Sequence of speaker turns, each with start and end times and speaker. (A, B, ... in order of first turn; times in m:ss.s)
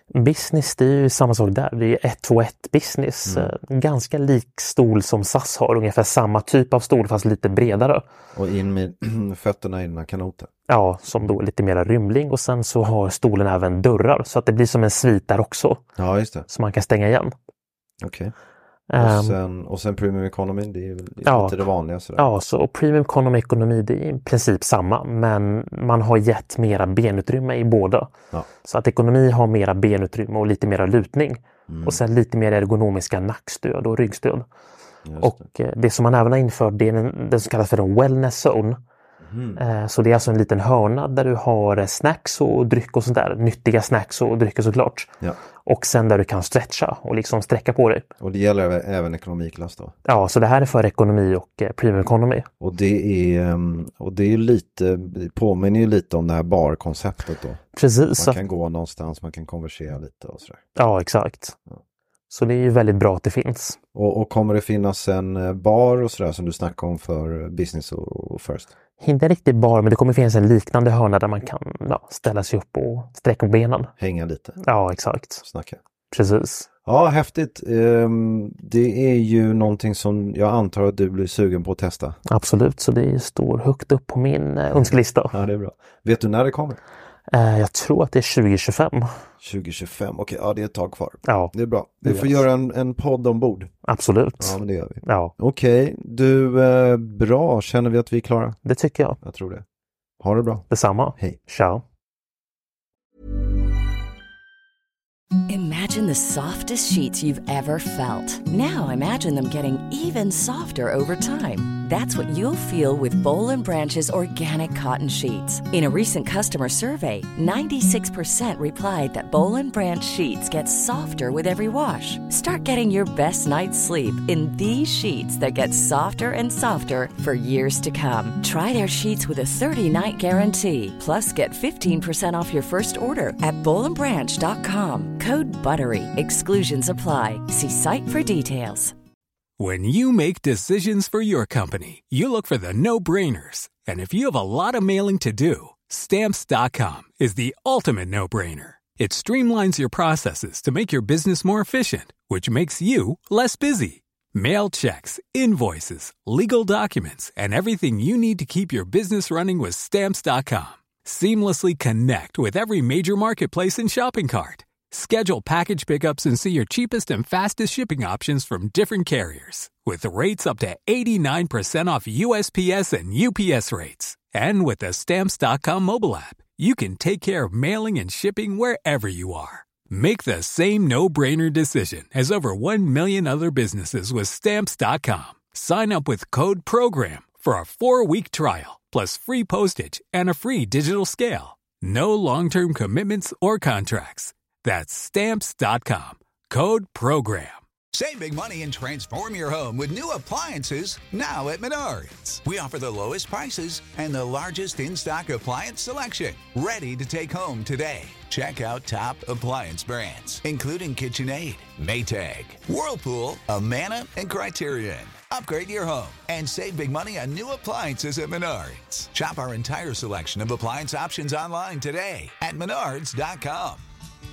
0:00.1-0:08.0 A
0:03.3-0:03.5 B
0:08.3-0:10.5 B
0:10.7-0:15.8 A
0:16.0-0:16.5 B
0:16.5-0:17.3 A
0:18.0-0:18.3 B
0:18.9-0:19.4 A
0:19.0-0:22.3 B
0:21.2-0:21.6 A
0:22.2-0:34.4 A
0:31.7-0:32.0 B
0:35.0-0:35.4 B
0:35.2-0:38.8 A
0:39.2-0:39.6 B
0:39.6-0:45.1 A
0:45.6-0:48.0 A
0:48.2-0:49.9 B
0:50.0-0:52.5 A
0:52.6-0:57.6 B
0:57.7-0:58.4 A
0:58.2-1:00.6 B
1:00.8-1:01.6 A
1:02.3-1:03.8 A
1:04.0-1:08.7 B
1:09.0-1:13.9 A
1:14.0-1:14.6 B
1:14.6-1:15.4 A
1:15.4-1:15.8 B
1:16.1-1:16.7 A
1:16.8-1:22.2 B
1:22.3-1:25.3 A
1:24.7-1:26.8 B
1:27.3-1:29.1 A
1:29.4-1:33.7 B
1:31.2-1:31.5 A
1:32.0-1:32.4 A
1:33.9-1:35.3 A
1:34.4-1:38.6 B
1:38.6-1:39.2 A
1:39.2-1:39.6 B
1:40.2-1:41.4 B
1:40.7-1:41.8 A
1:45.5-2:19.0 C
2:19.6-3:17.6 D
3:17.9-3:43.8 E